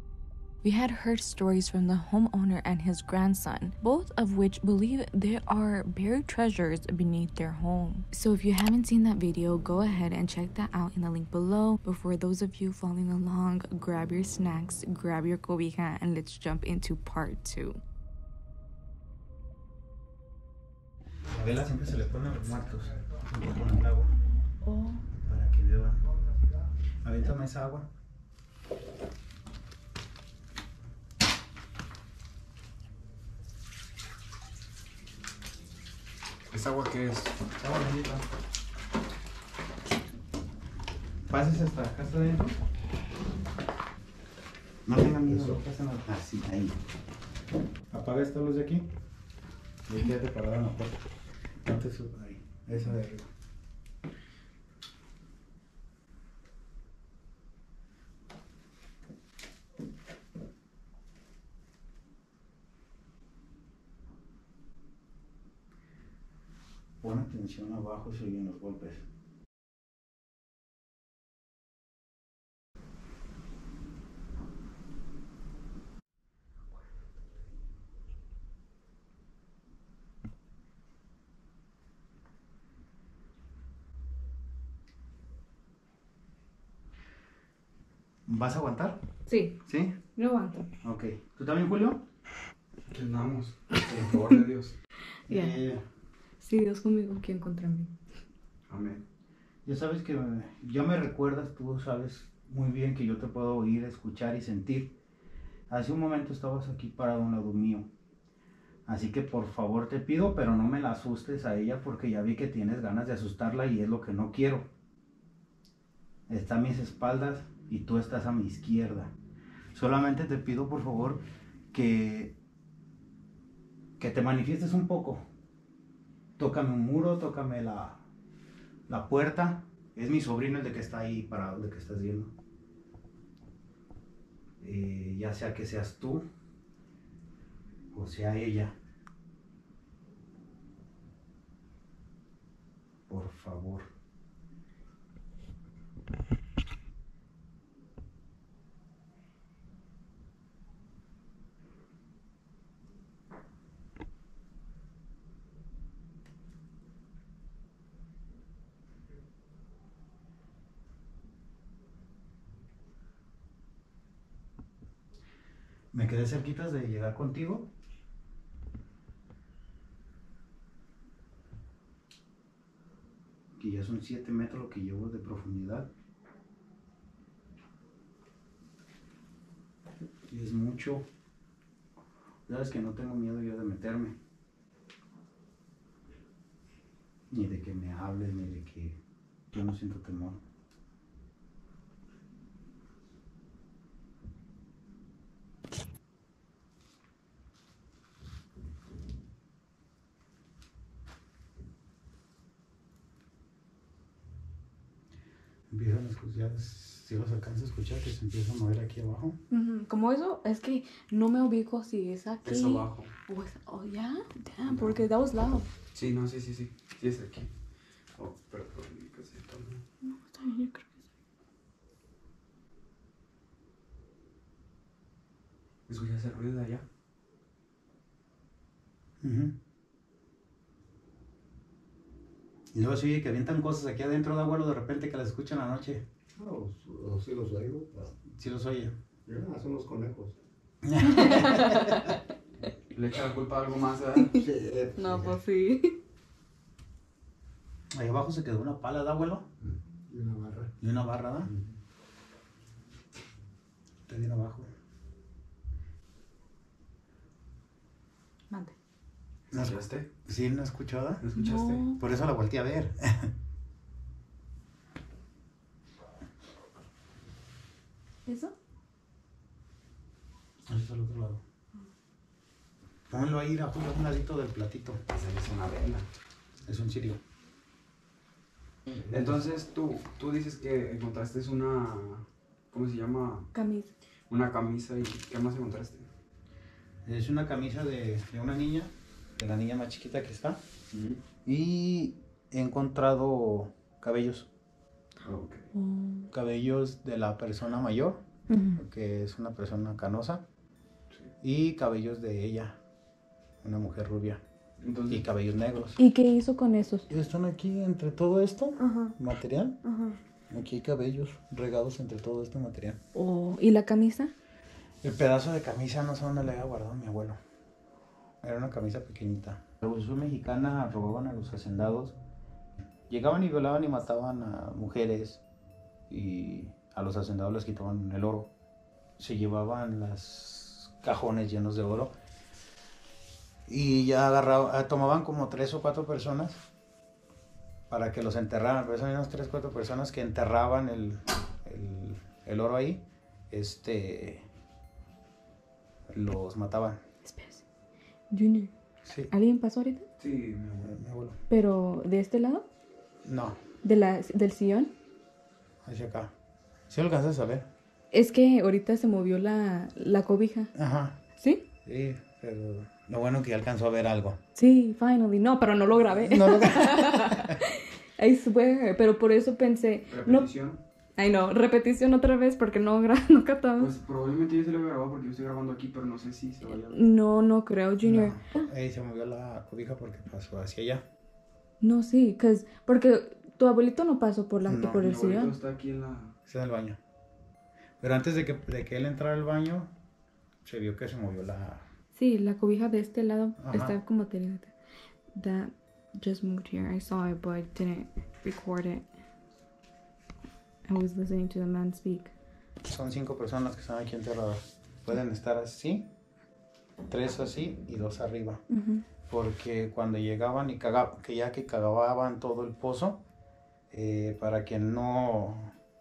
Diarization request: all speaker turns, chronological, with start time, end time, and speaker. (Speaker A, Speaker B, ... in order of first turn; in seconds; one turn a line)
Speaker A: 0.6-17.8
Speaker B: 21.3-24.1
Speaker A: 24.6-25.0
Speaker B: 25.2-26.0
Speaker B: 27.0-27.9
Speaker C: 36.5-37.4
Speaker B: 37.6-38.2
Speaker B: 41.3-42.6
Speaker B: 44.9-46.8
Speaker B: 47.9-48.9
Speaker B: 49.9-51.0
Speaker B: 51.6-53.3
Speaker B: 67.0-69.0
Speaker B: 88.3-89.0
Speaker A: 89.3-89.6
Speaker B: 89.7-90.0
Speaker A: 90.2-90.7
Speaker B: 90.8-92.0
Speaker C: 92.9-94.8
Speaker A: 95.3-95.6
Speaker B: 95.3-95.8
Speaker A: 96.4-97.9
Speaker C: 98.7-99.0
Speaker B: 99.7-105.0
Speaker B: 105.7-107.9
Speaker B: 108.9-114.7
Speaker B: 116.3-119.1
Speaker B: 119.7-122.3
Speaker B: 124.0-125.2
Speaker B: 126.4-128.0
Speaker B: 128.9-132.3
Speaker B: 134.6-136.2
Speaker B: 137.9-138.8
Speaker B: 143.1-143.9
Speaker B: 165.9-167.7
Speaker B: 173.6-175.9
Speaker B: 180.3-181.0
Speaker B: 182.5-184.2
Speaker B: 187.3-189.0
Speaker B: 189.5-190.4
Speaker B: 205.7-209.4
Speaker A: 209.5-215.7
Speaker C: 212.4-213.1
Speaker C: 214.7-215.0
Speaker C: 215.9-217.5
Speaker C: 218.2-219.8
Speaker A: 220.0-221.0
Speaker C: 225.9-226.8
Speaker B: 229.2-229.6
Speaker B: 232.7-236.1
Speaker D: 236.4-238.1
Speaker B: 238.2-238.9
Speaker D: 239.3-240.4
Speaker B: 240.8-242.1
Speaker A: 241.0-242.2
Speaker C: 242.9-244.5
Speaker D: 244.5-245.1
Speaker A: 245.0-246.0
Speaker B: 247.9-249.5
Speaker D: 250.1-250.7
Speaker B: 250.8-251.5
Speaker B: 254.1-254.7
Speaker A: 258.5-258.8
Speaker C: 259.5-260.1
Speaker B: 259.5-261.2
Speaker C: 261.2-261.9
Speaker A: 261.4-262.0
Speaker B: 262.0-263.3
Speaker A: 268.3-268.6
Speaker B: 270.7-271.4
Speaker B: 273.1-275.0
Speaker C: 275.1-276.1
Speaker B: 276.6-277.2
Speaker C: 278.9-283.5
Speaker A: 283.5-283.9
Speaker C: 284.3-286.1
Speaker B: 287.1-290.6
Speaker C: 290.9-291.2
Speaker B: 291.4-294.5
Speaker C: 295.2-295.6
Speaker A: 295.7-296.3
Speaker B: 296.3-298.2
Speaker A: 298.5-298.8
Speaker B: 298.8-300.4
Speaker B: 301.4-302.8
Speaker B: 303.6-304.4
Speaker C: 304.8-305.3
Speaker B: 305.1-306.0
Speaker A: 306.0-307.1
Speaker B: 307.1-309.8
Speaker A: 308.8-309.2
Speaker A: 309.8-310.2
Speaker B: 310.5-313.0
Speaker A: 313.1-314.3
Speaker B: 315.0-317.4
Speaker B: 318.4-322.2
Speaker B: 323.1-325.4
Speaker B: 326.1-328.5
Speaker B: 329.2-332.1
Speaker B: 333.7-336.6
Speaker B: 337.9-344.4
Speaker B: 346.1-347.0
Speaker A: 347.2-347.6
Speaker A: 348.3-348.7
Speaker B: 349.1-349.3
Speaker A: 349.3-350.1
Speaker C: 350.2-350.9
Speaker B: 350.8-351.4
Speaker A: 351.5-352.6
Speaker B: 353.2-353.6
Speaker A: 353.8-354.9
Speaker B: 355.8-356.3
Speaker B: 356.9-357.7
Speaker A: 358.1-360.7
Speaker B: 360.8-361.2
Speaker A: 361.4-361.6
Speaker B: 361.9-364.4
Speaker A: 364.6-370.5
Speaker B: 366.1-367.6
Speaker C: 370.1-370.8
Speaker A: 371.2-373.9
Speaker C: 373.8-377.1
Speaker A: 376.9-378.7
Speaker B: 378.0-381.0
Speaker A: 381.8-385.6
Speaker B: 384.7-385.1
Speaker C: 385.0-386.3
Speaker B: 386.5-387.0
Speaker B: 388.0-389.9
Speaker B: 390.6-391.8
Speaker A: 392.1-394.7
Speaker B: 393.6-394.0
Speaker A: 395.3-399.1
Speaker A: 400.9-402.3
Speaker B: 402.9-406.1
Speaker B: 407.1-408.6
Speaker A: 408.7-409.1
Speaker B: 409.3-413.2
Speaker B: 413.9-415.7